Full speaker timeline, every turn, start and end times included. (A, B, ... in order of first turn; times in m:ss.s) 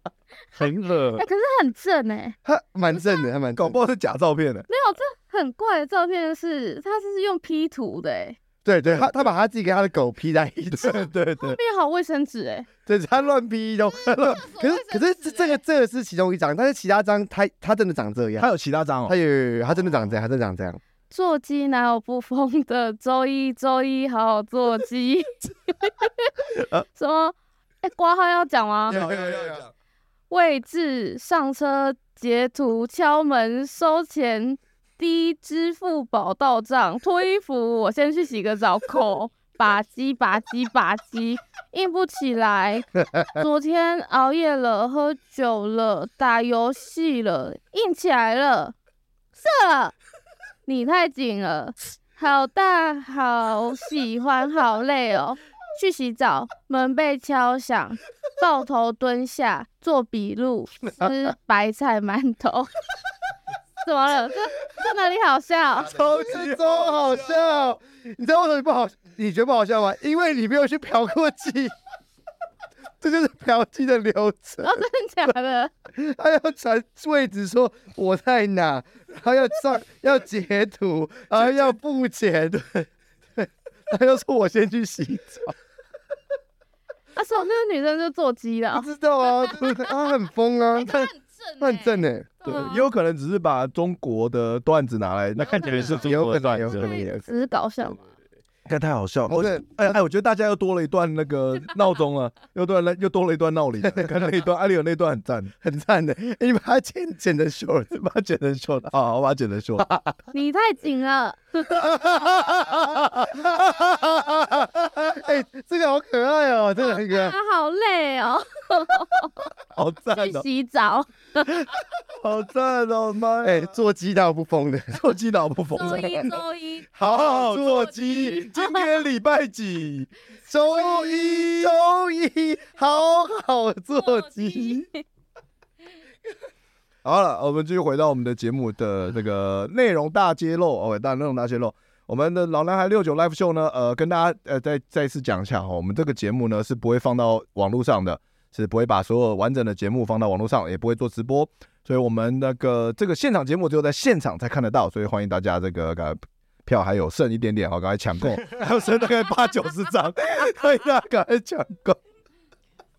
0:00.6-0:01.2 A
0:01.2-0:02.4 B
0:02.4-0:03.8 C
0:03.6-0:04.7 D
0:04.7-0:08.4 B
0:08.6-0:11.1 C
0:10.7-0:11.6 D
0:10.8-0:12.7 B
0:12.8-0:18.5 C
0:14.1-0:15.5 B
0:18.4-0:19.1 D
0:19.0-0:20.8 C
0:21.1-0:29.0 B
0:28.9-0:29.7 D
0:28.9-0:29.6 C
0:30.3-0:48.7 B
0:49.4-0:49.9 B
0:50.6-1:02.7 B
1:03.8-1:06.0 B
1:05.8-1:11.7 C
1:06.0-1:07.1 D
1:13.0-1:14.8 C
1:14.6-1:15.7 B
1:15.9-1:25.5 C
1:27.1-1:29.9 B
1:28.7-1:32.5 C
1:30.7-1:32.8 B
1:32.4-1:36.1 D
1:35.5-1:37.1 A
1:35.8-1:37.3 C
1:36.8-1:38.0 B
1:38.7-1:45.5 D
1:39.3-1:39.9 C
1:45.6-1:47.9 C
1:47.9-1:49.9 D
1:49.8-1:50.1 C
1:50.3-1:52.2 B
1:51.7-1:57.4 C
1:56.9-1:59.4 B
1:59.7-2:00.4 D
2:00.2-2:01.7 B
2:02.2-2:03.7 D
2:03.4-2:05.0 C
2:04.9-2:06.3 D
2:05.8-2:06.9 B
2:05.8-2:06.4 C
2:07.0-2:08.5 C
2:07.0-2:10.1 D
2:08.3-2:08.7 B
2:10.5-2:14.9 C
2:10.9-2:11.7 D
2:14.1-2:15.0 B
2:17.0-2:42.0 D